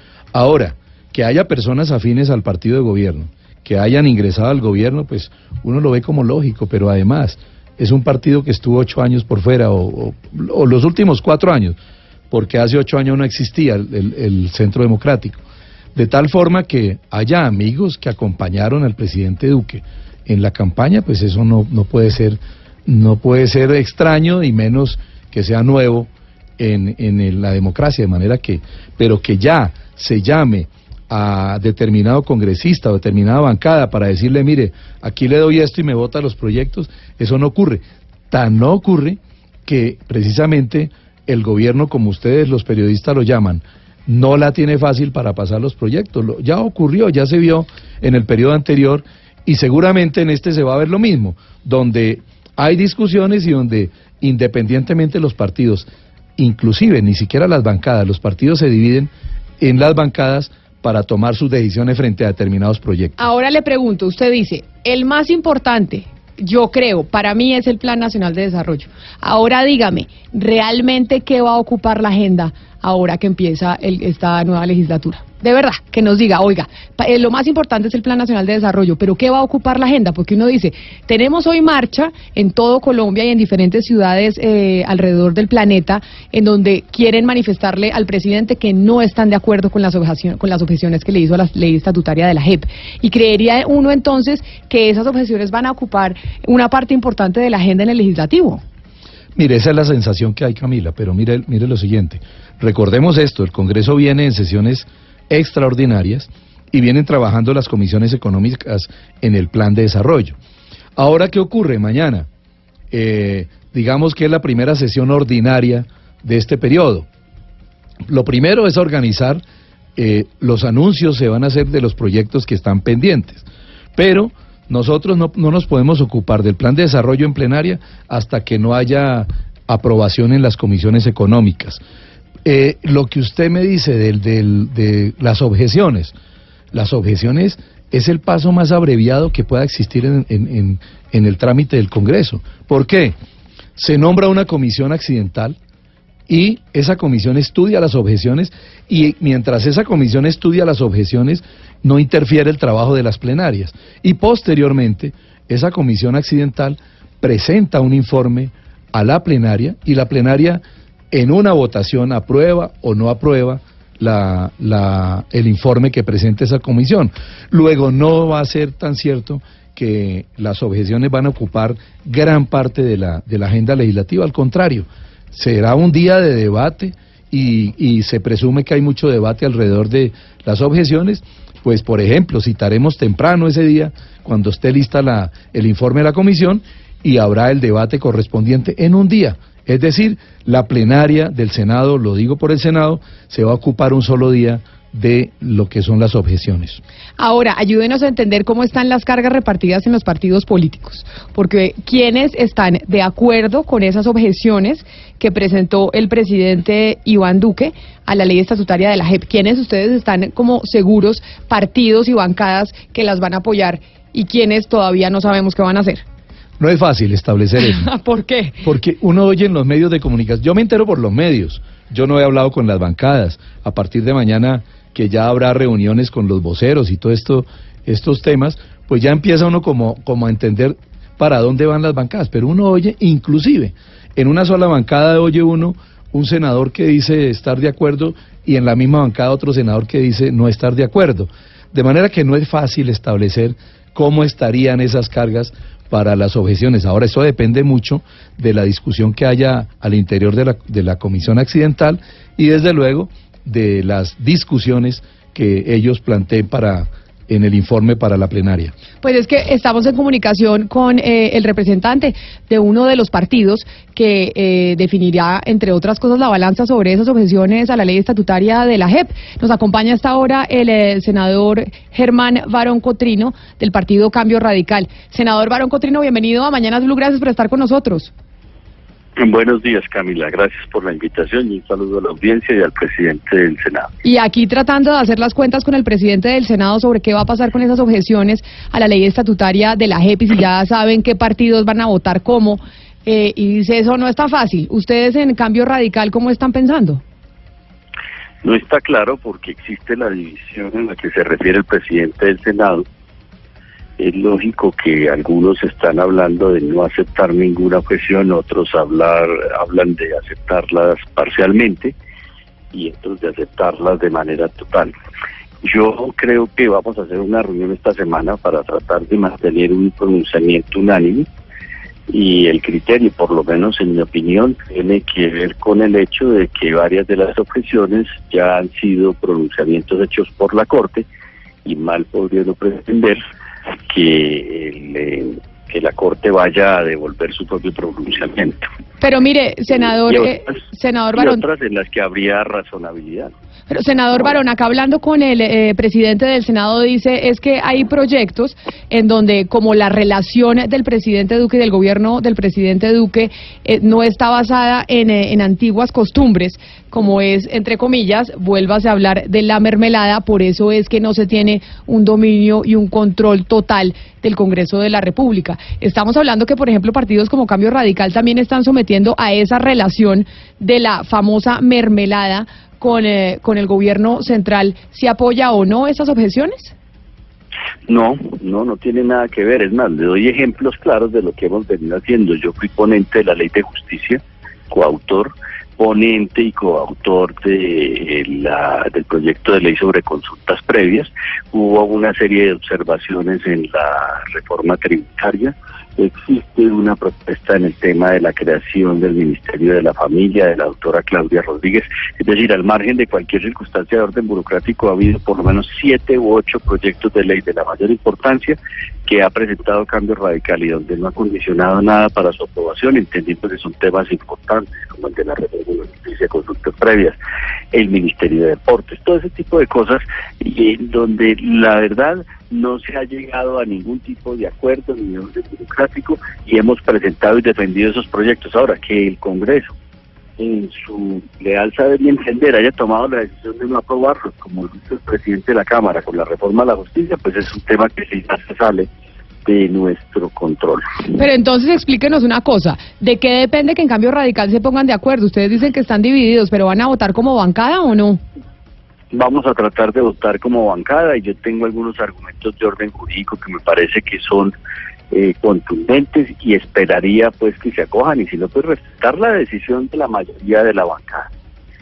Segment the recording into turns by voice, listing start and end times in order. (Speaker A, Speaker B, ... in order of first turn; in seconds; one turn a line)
Speaker A: 0.3-11.8
Speaker A: 12.3-15.4
Speaker A: 15.9-55.9
Speaker A: 56.4-63.2
Speaker B: 63.2-98.6
Speaker A: 99.3-110.3
Speaker A: 111.0-112.3
Speaker A: 112.9-117.0
Speaker A: 118.0-119.4
Speaker A: 120.0-123.4
Speaker A: 124.0-131.8
Speaker A: 132.4-136.1
Speaker A: 136.7-143.1
Speaker A: 143.8-145.6
Speaker A: 146.3-196.8
Speaker B: 197.2-216.0
Speaker A: 216.6-217.9
Speaker B: 217.6-218.6
Speaker A: 218.6-258.7
Speaker B: 259.0-278.1
Speaker C: 279.2-283.9
Speaker B: 284.0-297.0
Speaker C: 298.4-302.8
Speaker C: 304.0-311.9
Speaker C: 312.7-314.9
Speaker C: 315.6-321.3
Speaker C: 322.1-331.1
Speaker C: 331.6-333.2
Speaker C: 333.9-338.6
Speaker B: 339.0-341.4
Speaker C: 340.1-340.5
Speaker C: 341.1-343.3
Speaker B: 343.7-376.7
Speaker C: 377.9-417.1
Speaker C: 417.7-429.7
Speaker C: 430.4-438.9
Speaker C: 439.4-441.1
Speaker B: 441.1-448.2
Speaker C: 449.1-454.5
Speaker C: 455.1-461.3